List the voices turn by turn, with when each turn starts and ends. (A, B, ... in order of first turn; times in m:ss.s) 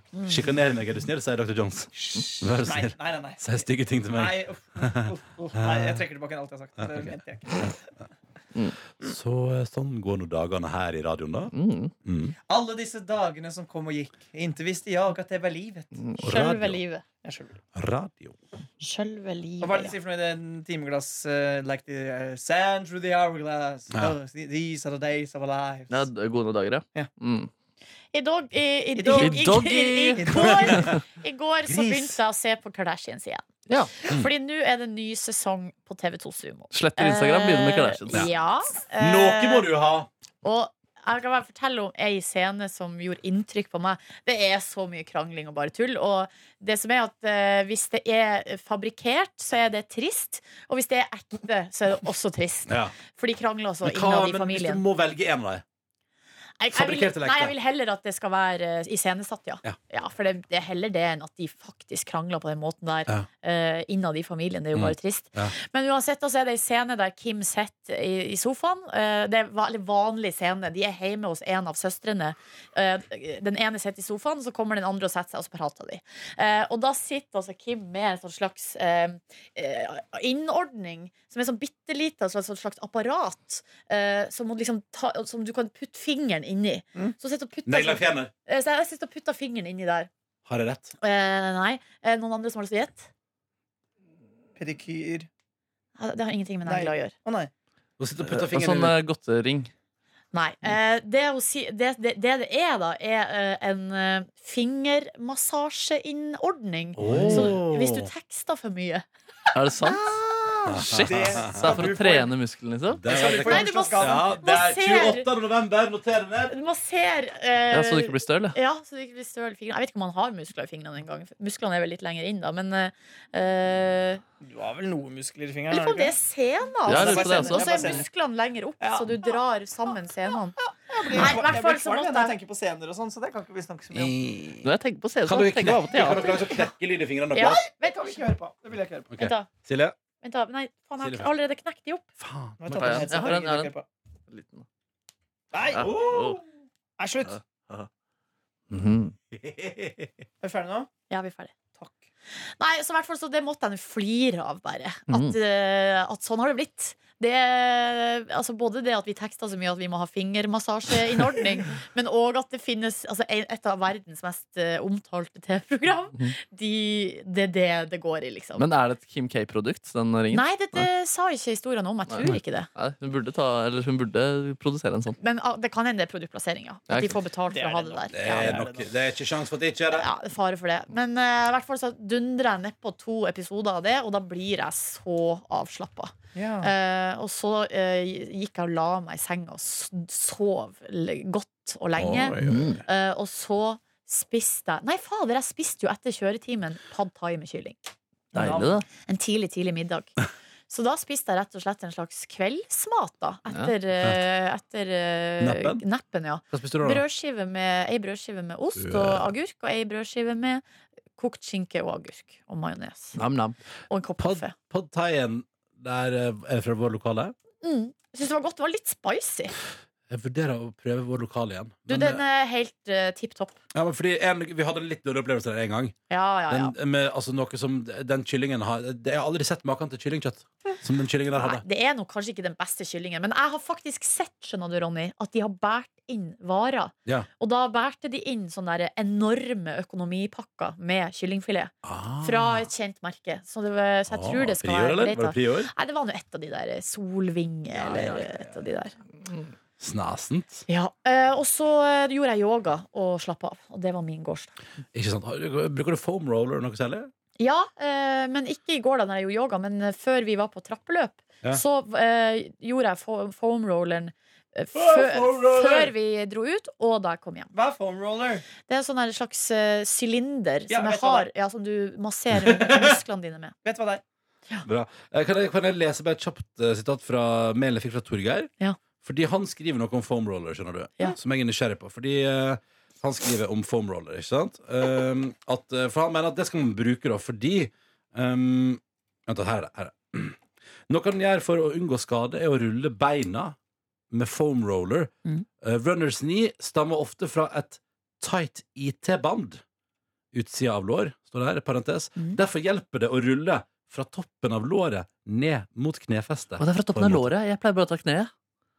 0:00.2-0:06.0 A
0:01.9-0:07.8 B
0:06.8-0:07.2 A
0:09.0-0:11.5 A
0:11.5-0:11.9 C
0:12.0-0:12.3 A
0:12.5-0:16.0 B
0:16.2-0:16.8 A
0:16.2-0:17.0 D
0:17.2-0:17.6 B
0:17.7-0:18.4 A
0:18.8-0:19.9 D
0:19.6-0:26.1 B
0:25.9-0:27.5 C
0:28.1-0:39.7 D
0:29.0-0:29.6 B
0:29.2-0:31.0 C
0:30.2-0:31.0 B
0:31.7-0:32.0 A
0:36.7-0:38.2 C
0:39.0-0:40.1 A
0:40.4-0:54.8 D
0:52.7-0:52.9 A
0:53.8-0:55.6 A
0:56.6-1:30.1 D
0:56.7-0:57.5 A
1:04.7-1:05.5 A
1:27.6-1:28.3 A
1:30.4-1:30.9 A
1:31.0-1:33.1 D
1:34.6-1:35.3 B
1:36.0-1:37.1 D
1:36.6-1:37.5 B
1:38.0-1:38.9 A
1:38.2-1:39.7 C
1:40.3-1:49.0 D
1:46.9-1:48.1 A
1:47.0-1:47.5 C
1:49.5-1:50.1 C
1:49.8-1:50.5 D
1:50.6-1:51.8 A
1:50.7-1:53.0 C
1:51.0-1:52.3 B
1:52.9-1:56.5 A
1:53.0-1:54.4 B
1:53.1-1:55.3 D
1:56.5-2:04.2 D
1:57.7-1:58.6 C
2:04.4-2:06.1 B
2:05.7-2:10.6 D
2:06.8-2:08.0 C
2:06.8-2:08.0 B
2:08.8-2:09.3 B
2:10.9-2:14.1 B
2:11.1-2:12.3 D
2:13.9-2:14.7 A
2:14.6-2:16.4 C
2:15.2-2:17.6 A
2:16.1-2:16.4 B
2:17.3-2:18.0 D
2:17.4-2:19.1 B
2:19.1-2:19.9 A
2:19.2-2:19.5 D
2:20.2-2:22.1 D
2:21.0-2:21.3 A
2:22.2-2:23.2 A
2:22.6-2:23.8 B
2:22.7-2:23.7 C
2:24.3-2:24.6 C
2:25.5-2:26.4 B
2:25.7-2:26.4 C
2:25.8-2:26.4 A
2:27.0-2:27.4 B
2:27.3-2:27.9 C
2:28.7-2:29.1 C
2:29.3-2:30.1 A
2:30.4-2:30.9 B
2:31.1-2:31.5 D
2:32.6-2:48.6 D
2:35.1-2:35.4 C
2:48.6-2:50.9 C
2:50.3-2:52.7 D
2:52.1-2:55.2 C
2:55.2-2:58.6 D
2:56.9-2:57.2 C
2:57.5-2:58.9 B
2:58.1-3:00.1 A
2:59.9-3:17.9 D
3:06.3-3:06.7 B
3:12.0-3:12.8 A
3:12.4-3:12.8 C
3:18.3-3:18.8 B
3:18.3-3:18.8 C
3:19.0-3:20.1 D
3:20.7-3:30.6 D
3:25.4-3:25.8 A
3:26.5-3:27.0 A
3:28.8-3:29.3 A
3:31.2-3:33.2 D
3:33.2-3:33.6 C
3:33.9-3:34.5 D
3:34.2-3:37.3 A
3:37.6-3:39.5 D
3:40.1-3:42.2 A
3:41.9-3:43.6 D
3:43.7-3:46.0 A
3:46.1-3:46.7 D
3:46.5-3:51.6 A
3:51.3-4:08.9 D
4:01.8-4:02.7 A
4:04.1-4:05.7 A
4:09.8-4:10.6 A
4:10.7-4:14.5 D
4:14.9-4:17.1 A
4:17.4-4:27.5 D
4:24.8-4:25.9 B
4:27.5-4:28.4 B
4:28.7-4:33.5 D
4:30.7-4:31.3 B
4:32.3-4:33.0 A
4:33.6-4:34.0 B
4:34.6-4:38.5 A
4:39.0-4:50.4 A
4:50.9-4:53.6 A
4:54.1-4:59.6 A
5:00.3-5:07.3 A
5:06.6-5:08.3 C